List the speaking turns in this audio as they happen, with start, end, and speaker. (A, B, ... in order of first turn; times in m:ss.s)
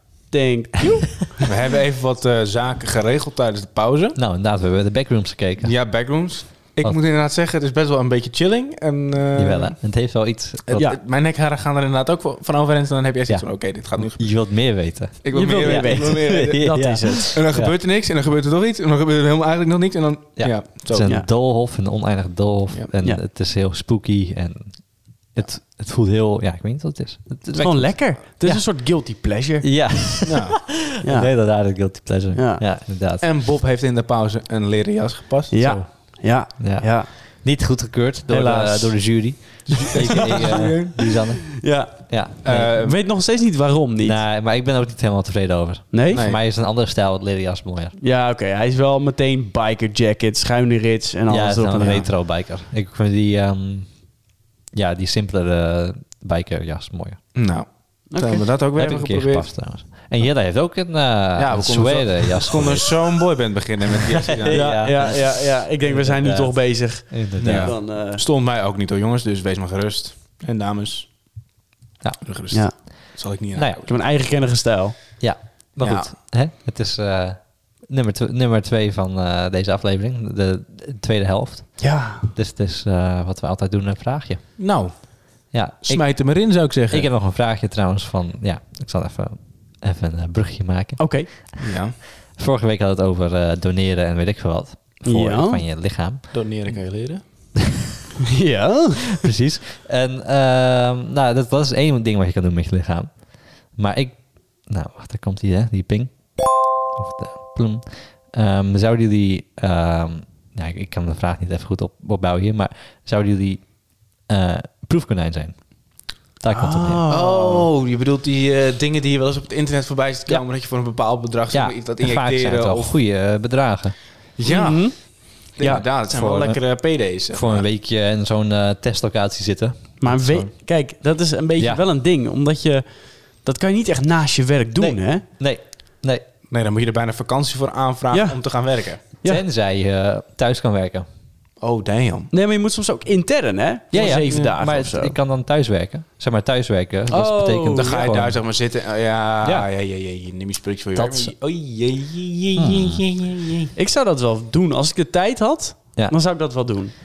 0:00.3-0:01.5 A
0:01.4-0:04.2 B
0:04.2-0:05.7 C
0:05.6-0:09.8 B
0:09.4-0:10.9 C
0:10.7-0:14.5 B
0:14.1-0:17.7 C
0:15.2-0:16.6 B
0:15.3-0:17.4 A
0:17.2-0:21.1 B
0:20.4-0:28.6 C
0:27.5-0:29.7 A
0:29.6-0:33.2 C
0:30.2-0:30.6 B
0:31.0-0:31.3 A
0:32.3-0:32.6 A
0:33.2-0:35.5 B
0:35.5-0:37.1 A
0:35.6-0:35.9 C
0:36.6-0:42.7 C
0:38.3-0:39.0 A
0:39.7-0:41.0 B
0:40.0-0:40.6 A
0:41.6-0:42.1 A
0:42.4-0:43.0 B
0:42.7-0:44.2 A
0:44.0-0:48.0 C
0:45.9-0:46.2 A
0:46.1-0:46.4 B
0:48.0-0:52.1 A
0:51.3-0:53.9 C
0:54.7-0:57.2 C
0:57.3-0:59.5 B
0:58.1-0:58.4 A
0:58.8-1:03.1 C
1:01.4-1:04.8 B
1:04.1-1:07.7 C
1:04.5-1:08.2 A
1:07.4-1:11.1 B
1:12.2-1:13.9 B
1:13.5-1:13.8 C
1:13.8-1:15.0 A
1:15.2-1:24.6 C
1:15.8-1:16.1 B
1:21.8-1:22.3 A
1:24.6-1:25.2 B
1:25.5-1:26.4 C
1:25.8-1:27.1 B
1:26.9-1:31.6 C
1:31.0-1:31.3 A
1:31.6-1:32.0 B
1:32.3-1:36.2 C
1:35.0-1:35.6 A
1:36.3-1:37.2 B
1:38.2-1:39.2 A
1:39.1-1:55.7 C
1:56.4-1:57.0 C
1:56.5-1:57.7 A
1:57.1-2:03.0 B
2:01.5-2:03.9 C
2:04.4-2:07.6 B
2:04.4-2:05.8 A
2:05.6-2:06.6 C
2:07.3-2:10.5 C
2:10.0-2:12.8 A
2:13.3-2:15.2 A
2:14.8-2:16.2 C
2:16.5-2:19.0 B
2:18.1-2:18.4 A
2:19.1-2:19.4 A
2:19.2-2:21.0 C
2:21.6-2:22.3 B
2:22.3-2:25.1 A
2:23.9-2:28.4 C
2:27.1-2:28.0 A
2:27.7-2:33.7 B
2:30.9-2:31.3 C
2:32.6-2:33.0 C
2:33.8-2:36.9 A